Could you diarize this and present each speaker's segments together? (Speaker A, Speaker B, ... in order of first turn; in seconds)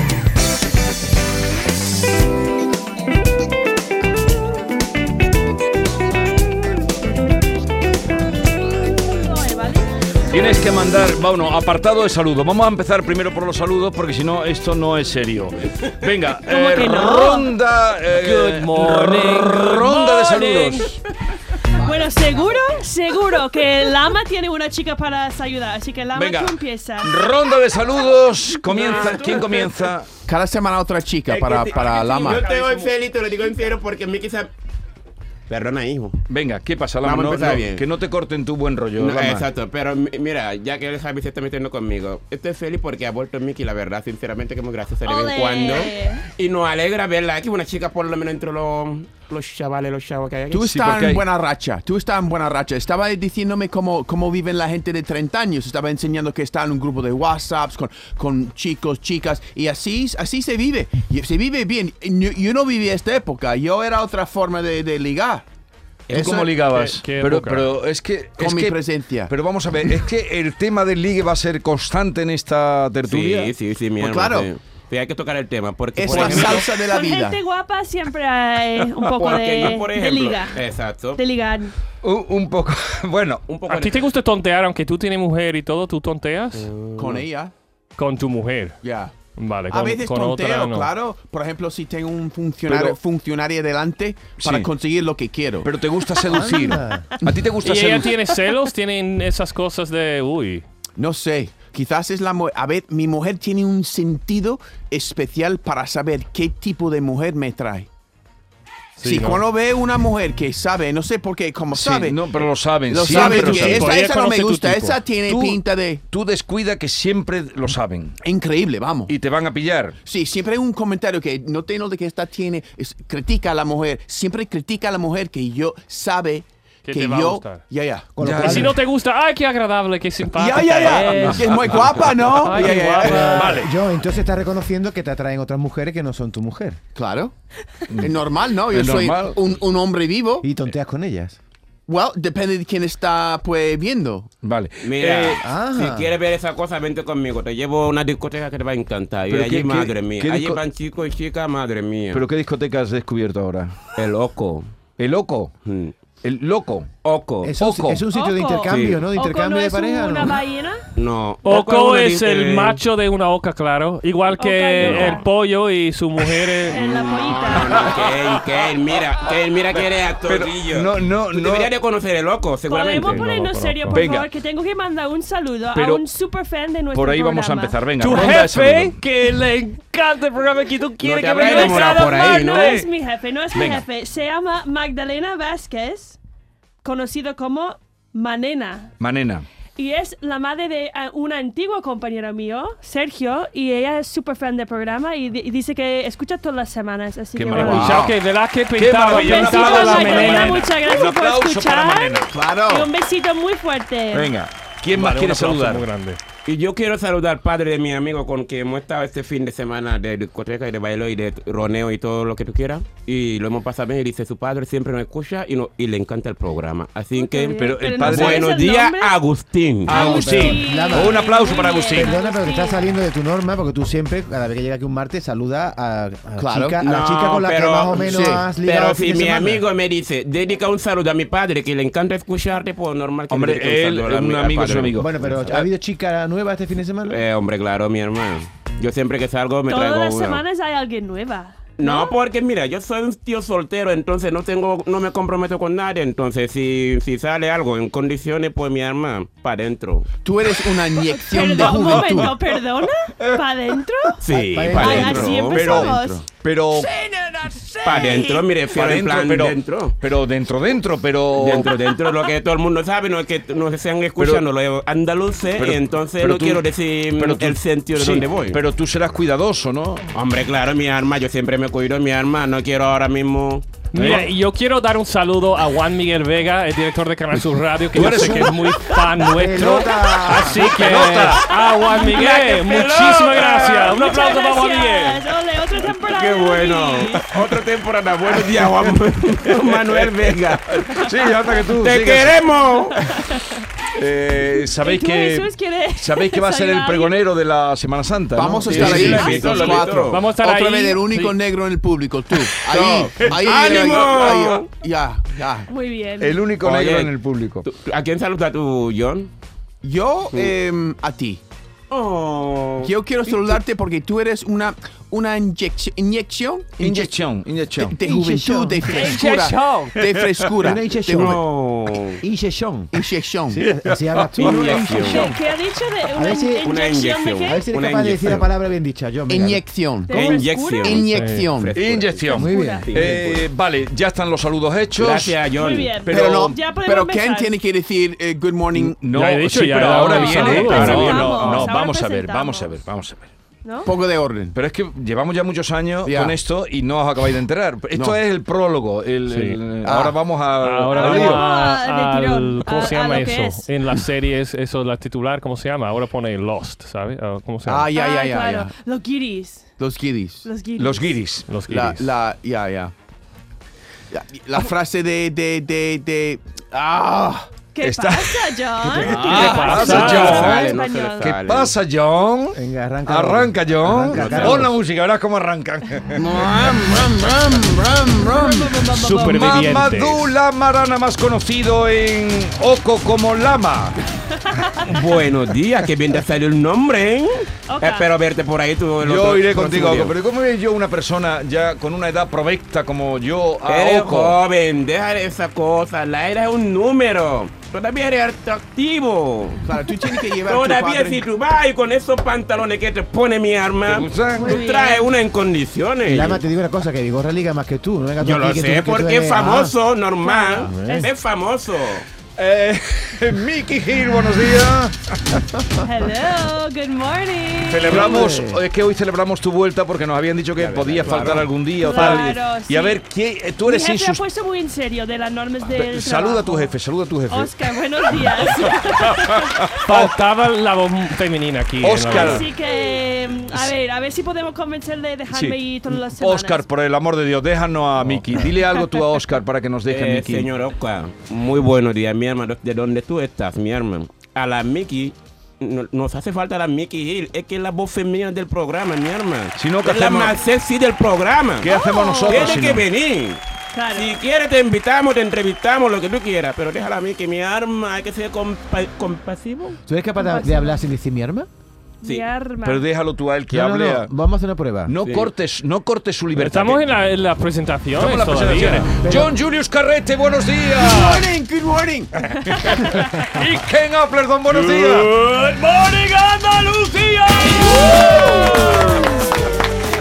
Speaker A: 8.9-9.9, 16.4-17.5, 19.8-21.0, 21.8-27.1, 45.0-46.3, 76.7-80.6, 81.2-81.7, 96.1-96.5, 158.1-160.8, 164.4-165.3, 166.7-167.8, 172.7-177.8, 181.4-186.2, 186.8-188.9, 189.8-198.0, 199.1-204.3, 217.1-219.2, 219.9-222.8, 239.7-242.1, 251.1-256.2, 281.8-282.4, 283.3-287.3, 290.9-291.6, 292.6-293.6, 294.7-297.2, 299.0-300.0, 305.7-306.4, 324.7-327.9, 330.1-331.3, 332.3-333.0, 335.5-337.5, 339.9-342.8, 343.6-343.9, 350.9-353.7, 357.9-359.7, 360.4-361.3, 367.7-371.4, 378.2-379.9, 384.5-384.9, 387.7-388.1, 404.3-405.1, 410.2-411.1, 415.8-418.3, 421.7-423.0, 423.6-426.7, 427.3-429.6, 432.1-436.6, 438.6-439.2, 451.6-452.8, 453.7-454.2, 460.1-460.8, 462.0-462.8
Speaker B: 10.3-21.0, 26.1-30.1, 36.3-39.4, 50.6-51.2, 66.1-73.5, 76.2-76.5, 82.0-83.4, 92.7-93.0, 94.4-94.7, 95.6-98.1, 111.7-113.9, 115.3-118.2, 119.1-120.0, 128.2-128.7, 130.8-133.7, 137.9-139.6, 144.4-145.4, 149.3-150.6, 152.1-153.8, 155.0-155.5, 156.2-156.9, 157.6-158.0, 167.8-168.4, 170.3-171.7, 173.9-174.3, 175.7-176.0, 176.9-179.0, 183.5-183.8, 189.0-189.5, 197.3-198.1, 198.8-202.3, 204.1-205.8, 217.5-218.5, 219.9-222.2, 233.3-235.7, 251.6-252.5, 255.4-261.7, 264.2-264.4, 265.6-266.6, 267.1-270.1, 273.9-274.3, 277.9-279.1, 280.4-281.5, 288.6-288.9, 289.7-290.1, 290.7-292.4, 293.9-299.8, 302.7-303.9, 306.2-307.6, 316.8-317.9, 320.0-320.5, 323.6-324.5, 331.7-335.4, 336.1-336.5, 338.7-343.3, 344.5-351.4, 360.8-361.5, 367.8-370.6, 371.4-376.3, 378.9-384.0, 389.0-394.4, 403.9-404.6, 412.4-415.5, 417.7-424.2, 425.7-427.5, 428.1-430.1, 431.8-432.5, 435.3-440.5, 449.6-450.4, 451.6-452.9, 462.6-464.1, 464.9-466.9, 468.0-471.2, 472.2-479.3
Speaker C: 18.1-20.6, 29.0-29.4, 31.6-32.9, 66.7-67.7, 83.7-86.7, 88.0-88.8, 89.3-90.9, 97.6-100.6, 109.0-109.4, 113.0-115.0, 126.8-127.6, 128.4-133.7, 161.4-166.8, 173.1-174.1, 178.0-182.9, 197.6-200.8, 204.9-206.2, 273.9-285.2, 298.6-301.4, 318.9-320.0, 331.1-331.5, 339.1-341.6, 349.2-349.6, 350.6-357.9, 361.5-362.1, 369.3-370.5, 379.0-380.3, 421.9-422.2, 429.9-432.4, 466.3-468.9, 472.8-473.6, 474.5-476.0, 477.6-478.5
Speaker D: 28.7-29.6, 31.3-34.5, 35.5-36.2, 37.0-37.8, 39.0-50.7, 73.1-76.7, 79.2-81.2, 83.5-84.0, 86.6-87.2, 144.8-152.2, 153.9-154.7, 155.6-155.9, 157.0-157.5, 158.7-159.0, 160.9-162.8, 164.8-165.2, 166.7-173.2, 181.0-182.8, 206.4-220.5, 226.8-235.6, 237.1-240.4, 241.8-250.1, 254.2-255.9, 257.8-260.0, 261.3-268.6, 270.1-273.8, 281.9-284.0, 285.9-291.0, 291.8-293.1, 298.7-300.2, 302.7-304.7, 306.6-307.1, 307.6-309.3, 311.9-313.6, 321.1-322.2, 324.4-325.4, 326.6-328.5, 330.1-333.5, 334.9-336.1, 340.8-341.5, 368.9-371.7, 374.1-374.7, 376.2-376.8, 384.9-390.1, 393.6-406.4, 408.2-412.1, 420.6-421.5, 439.9-451.7, 452.3-459.8, 465.0-465.3
Speaker E: 30.2-32.5, 50.5-65.4, 66.1-66.5, 68.4-69.3, 74.0-74.5, 76.0-77.4, 87.0-87.5, 88.8-89.1, 89.7-95.7, 101.0-107.9, 109.0-116.0, 118.2-119.1, 120.0-128.1, 130.3-133.6, 136.9-137.3, 138.0-140.5, 141.9-144.3, 197.6-198.1, 202.3-202.9, 226.4-226.8, 227.9-228.4, 250.2-252.3, 255.0-256.2, 298.3-305.7, 309.8-311.4, 312.8-317.2, 317.7-321.4, 322.9-323.7, 329.3-331.8, 336.1-339.0, 343.8-344.5, 346.0-346.4, 347.9-348.2, 349.8-350.2, 357.6-358.7, 359.8-360.5, 361.6-362.9, 364.1-367.5, 369.3-369.7, 376.2-378.8, 399.6-401.2, 421.0-421.4, 470.8-472.2
Speaker F: 96.3-97.1, 128.2-128.8, 133.0-136.8, 140.4-141.4, 145.4-146.1, 157.4-160.4, 219.9-221.3, 221.9-229.6, 234.9-237.2, 254.5-255.3, 279.3-280.7, 318.0-319.1, 320.6-321.4, 322.2-323.0, 323.5-325.4, 326.1-326.7, 327.4-329.6, 332.3-332.9, 372.5-374.7, 406.1-409.7, 410.6-411.0, 417.9-418.6, 459.9-461.5, 463.5-464.9